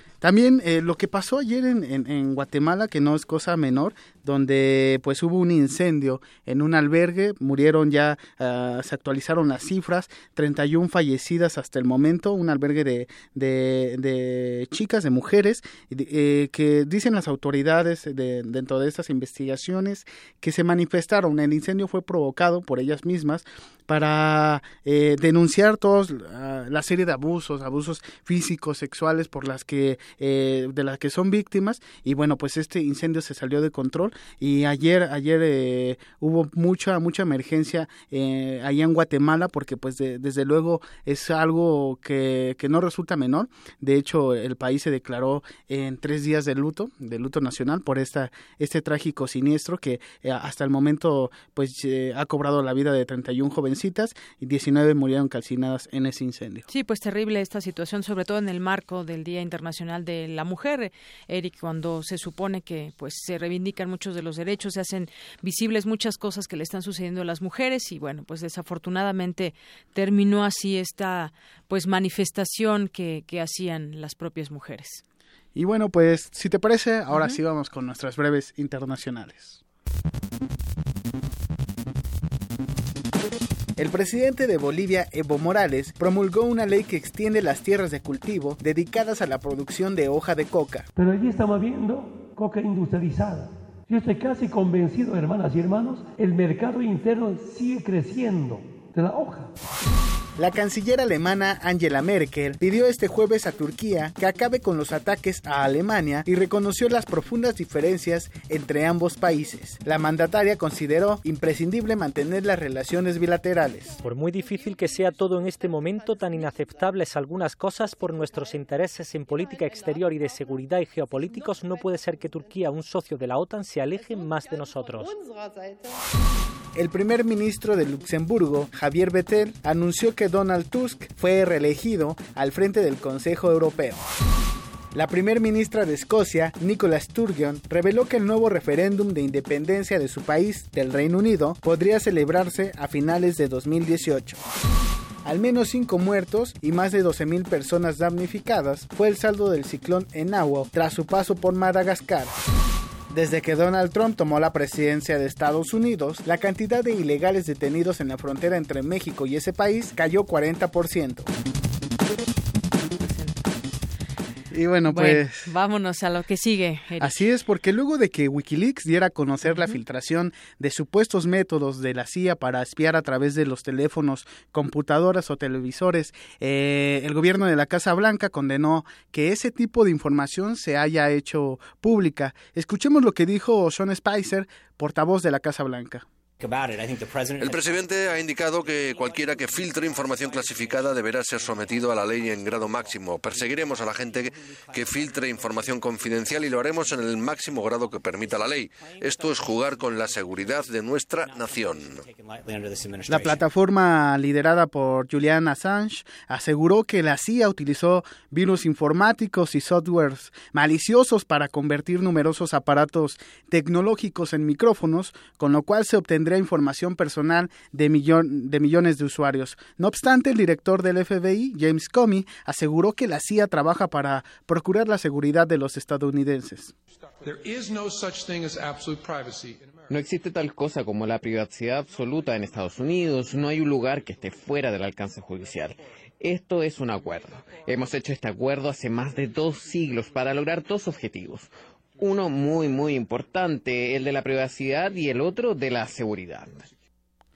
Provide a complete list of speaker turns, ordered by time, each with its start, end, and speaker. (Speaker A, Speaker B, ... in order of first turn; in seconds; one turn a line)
Speaker A: 0.2-56.7
Speaker B: 56.7-75.0
Speaker A: 75.5-79.6
Speaker B: 77.1-77.4
Speaker A: 83.8-90.9
Speaker C: 91.0-99.5
Speaker A: 100.4-114.0
Speaker D: 114.0-125.1
Speaker A: 126.8-134.0
Speaker A: 134.9-144.4
Speaker A: 145.2-152.3
Speaker A: 153.1-161.3
Speaker B: 163.0-163.4
Speaker A: 164.5-165.5
Speaker B: 164.9-167.2
Speaker A: 167.0-186.1
Speaker B: 169.5-169.8
Speaker E: 187.4-202.0
Speaker A: 203.1-226.7
Speaker F: 229.9-241.5
Speaker F: 242.0-246.5